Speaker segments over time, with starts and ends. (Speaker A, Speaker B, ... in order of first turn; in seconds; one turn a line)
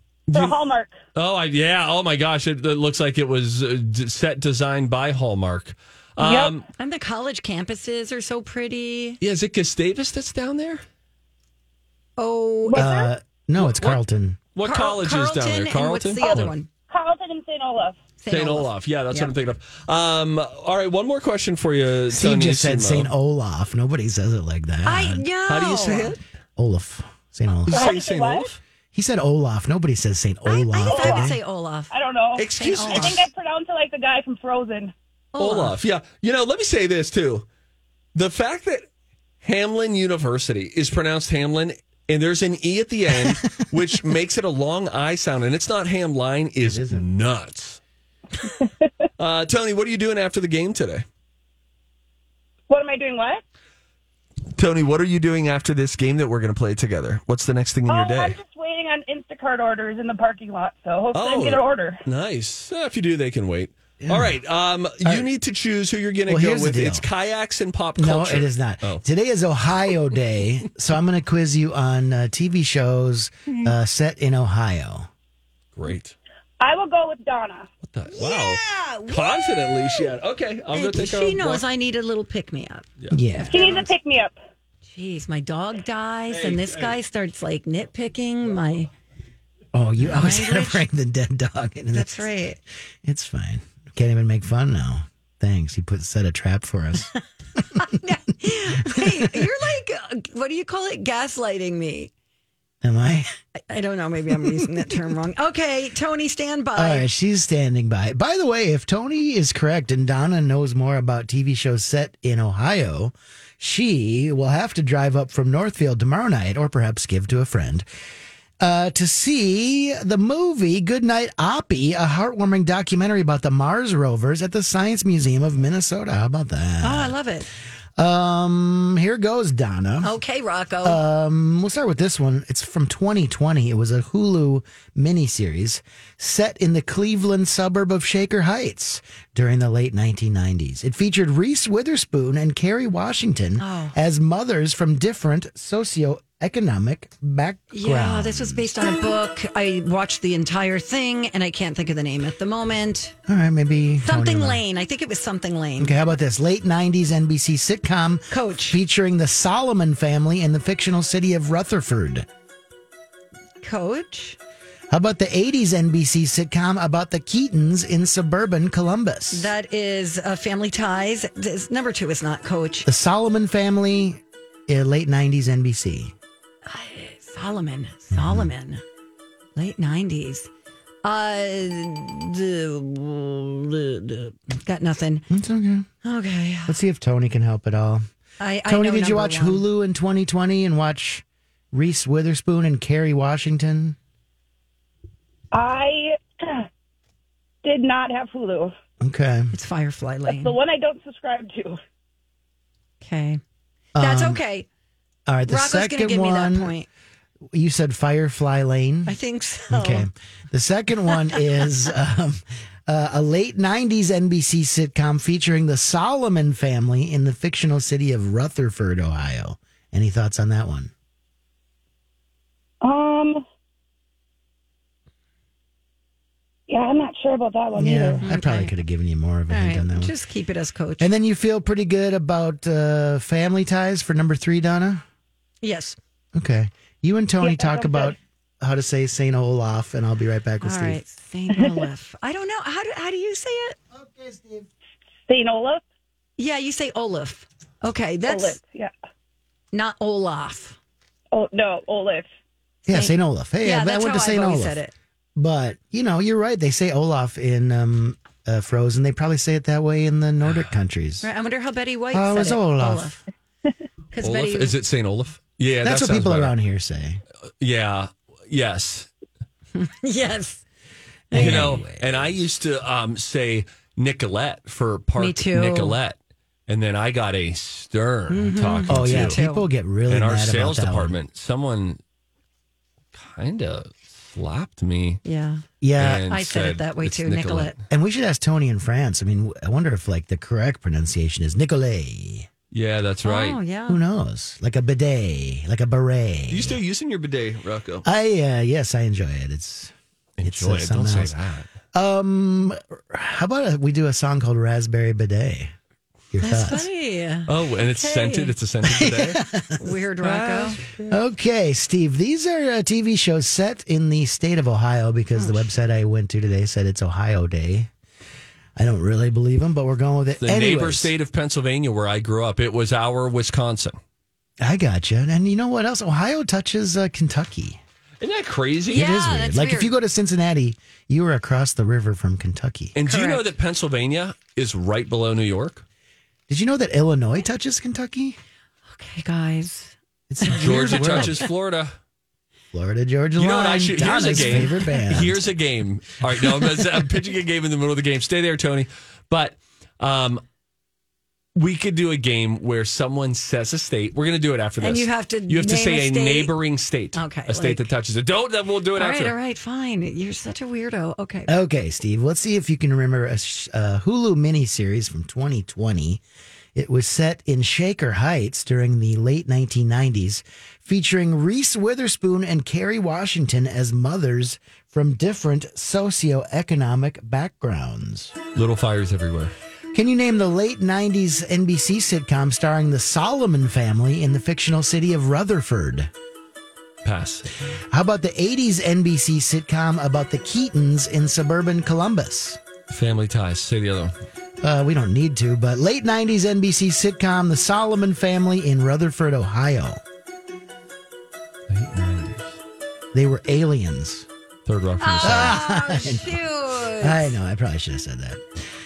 Speaker A: 0.3-0.6
Speaker B: 0.3-0.9
Speaker A: 1.1-6.7
Speaker B: 6.2-6.5
Speaker C: 6.8-9.2
Speaker A: 9.2-10.8
Speaker C: 12.2-13.1
Speaker B: 12.7-13.1
Speaker D: 12.7-14.4
Speaker A: 13.6-14.0
Speaker A: 14.5-16.5
Speaker C: 14.6-16.7
Speaker B: 16.2-18.0
Speaker C: 18.2-19.3
Speaker A: 18.3-23.1
Speaker D: 22.1-25.2
Speaker C: 24.8-26.1
Speaker A: 25.5-26.2
Speaker D: 26.6-27.9
Speaker A: 27.7-28.6
Speaker B: 27.7-28.5
Speaker D: 28.9-31.4
Speaker C: 30.4-31.9
Speaker B: 30.8-31.3
Speaker B: 31.9-34.9
Speaker A: 32.4-33.3
Speaker C: 32.5-33.2
Speaker C: 35.3-35.8
Speaker A: 35.4-37.5
Speaker A: 38.1-38.8
Speaker A: 39.4-47.8
Speaker D: 46.6-47.1
Speaker A: 49.2-51.0
Speaker B: 52.7-53.4
Speaker A: 54.5-58.4
Speaker B: 57.9-62.0
Speaker A: 61.1-69.0
Speaker D: 64.0-64.4
Speaker D: 66.3-67.0
Speaker D: 68.0-75.1
Speaker A: 75.7-76.2
Speaker B: 76.6-77.7
Speaker A: 77.8-81.6
Speaker C: 78.1-80.1
Speaker C: 80.7-83.9
Speaker D: 83.1-83.6
Speaker B: 83.5-84.3
Speaker C: 84.9-88.9
Speaker A: 86.3-86.9
Speaker D: 89.7-92.3
Speaker C: 90.0-90.8
Speaker C: 91.9-92.6
Speaker D: 93.0-97.1
Speaker C: 97.8-102.1
Speaker D: 98.8-99.5
Speaker D: 102.8-103.3
Speaker C: 103.7-107.1
Speaker D: 104.4-104.9
Speaker D: 106.8-117.9
Speaker D: 118.6-127.1
Speaker C: 126.8-127.5
Speaker D: 128.0-130.1
Speaker C: 130.0-131.0
Speaker D: 130.8-148.7
Speaker C: 143.6-143.9
Speaker C: 147.7-153.1
Speaker D: 153.3-154.6
Speaker C: 154.0-156.0
Speaker D: 155.8-162.3
Speaker C: 158.3-158.8
Speaker C: 163.6-164.4
Speaker D: 164.9-169.5
Speaker C: 169.3-172.9
Speaker D: 172.8-176.1
Speaker C: 176.7-178.8
Speaker D: 178.1-178.5
Speaker C: 179.6-180.5
Speaker C: 181.0-185.2
Speaker D: 185.3-185.9
Speaker C: 186.0-186.8
Speaker D: 186.7-188.0
Speaker C: 188.4-189.6
Speaker D: 188.7-194.0
Speaker B: 195.5-196.7
Speaker B: 197.6-198.7
Speaker D: 199.0-199.5
Speaker C: 199.5-200.6
Speaker B: 200.3-201.8
Speaker C: 203.0-203.4
Speaker D: 203.9-204.4
Speaker C: 204.0-204.7
Speaker D: 205.3-206.7
Speaker C: 205.5-206.9
Speaker D: 207.5-209.1
Speaker C: 209.1-210.1
Speaker D: 209.7-220.9
Speaker C: 211.1-211.4
Speaker B: 222.8-223.4
Speaker B: 226.7-228.2
Speaker D: 227.7-230.1
Speaker C: 228.2-228.7
Speaker C: 229.5-231.1
Speaker D: 231.0-235.0
Speaker C: 235.6-236.0
Speaker D: 236.3-241.0
Speaker B: 237.4-238.1
Speaker C: 240.6-243.8
Speaker D: 243.9-244.7
Speaker B: 245.3-245.8
Speaker C: 246.4-248.6
Speaker B: 248.3-248.9
Speaker C: 249.7-250.8
Speaker B: 251.3-252.3
Speaker D: 252.9-254.8
Speaker C: 252.9-254.9
Speaker D: 255.3-261.3
Speaker A: 260.4-260.7
Speaker C: 261.2-263.2
Speaker D: 262.1-263.2
Speaker C: 264.1-264.7
Speaker A: 264.2-266.5
Speaker D: 265.8-267.2
Speaker A: 267.6-269.1
Speaker C: 269.7-270.6
Speaker C: 271.3-271.7
Speaker D: 271.3-272.4
Speaker A: 271.3-276.2
Speaker C: 275.2-276.0
Speaker A: 276.7-279.4
Speaker C: 278.3-279.7
Speaker D: 278.9-281.1
Speaker A: 280.1-282.0
Speaker A: 283.1-285.2
Speaker C: 285.2-285.6
Speaker D: 285.8-286.3
Speaker A: 285.9-287.7
Speaker C: 286.3-287.8
Speaker D: 287.9-292.5
Speaker A: 292.7-293.6
Speaker C: 293.2-294.0
Speaker D: 293.9-296.8
Speaker A: 296.5-298.0
Speaker D: 298.0-301.4
Speaker A: 300.4-301.7
Speaker D: 301.9-305.7
Speaker D: 306.3-306.9
Speaker C: 306.4-308.5
Speaker A: 307.5-309.4
Speaker D: 308.8-309.9
Speaker C: 309.8-310.8
Speaker A: 310.2-311.1
Speaker D: 311.1-317.9
Speaker C: 315.4-315.6
Speaker D: 318.8-321.1
Speaker A: 320.4-324.0
Speaker D: 324.6-327.8
Speaker A: 328.2-329.1
Speaker C: 328.9-329.9
Speaker D: 328.9-332.9
Speaker A: 332.9-335.8
Speaker C: 333.0-333.5
Speaker D: 336.5-338.4
Speaker C: 338.9-341.4
Speaker D: 340.3-341.4
Speaker A: 340.5-341.9
Speaker D: 342.7-345.4
Speaker A: 343.4-350.4
Speaker C: 344.5-344.8
Speaker A: 351.6-359.3
Speaker C: 354.8-356.5
Speaker C: 357.1-357.9
Speaker C: 358.9-361.5
Speaker D: 361.5-366.2
Speaker D: 366.7-378.4
Speaker A: 378.5-379.5
Speaker D: 379.9-386.1
Speaker A: 387.0-387.5
Speaker D: 387.9-392.6
Speaker A: 392.9-394.1
Speaker D: 394.6-400.0
Speaker A: 401.7-402.6
Speaker D: 403.1-404.3
Speaker A: 404.6-405.6
Speaker C: 405.0-407.4
Speaker D: 405.2-406.4
Speaker D: 407.0-408.4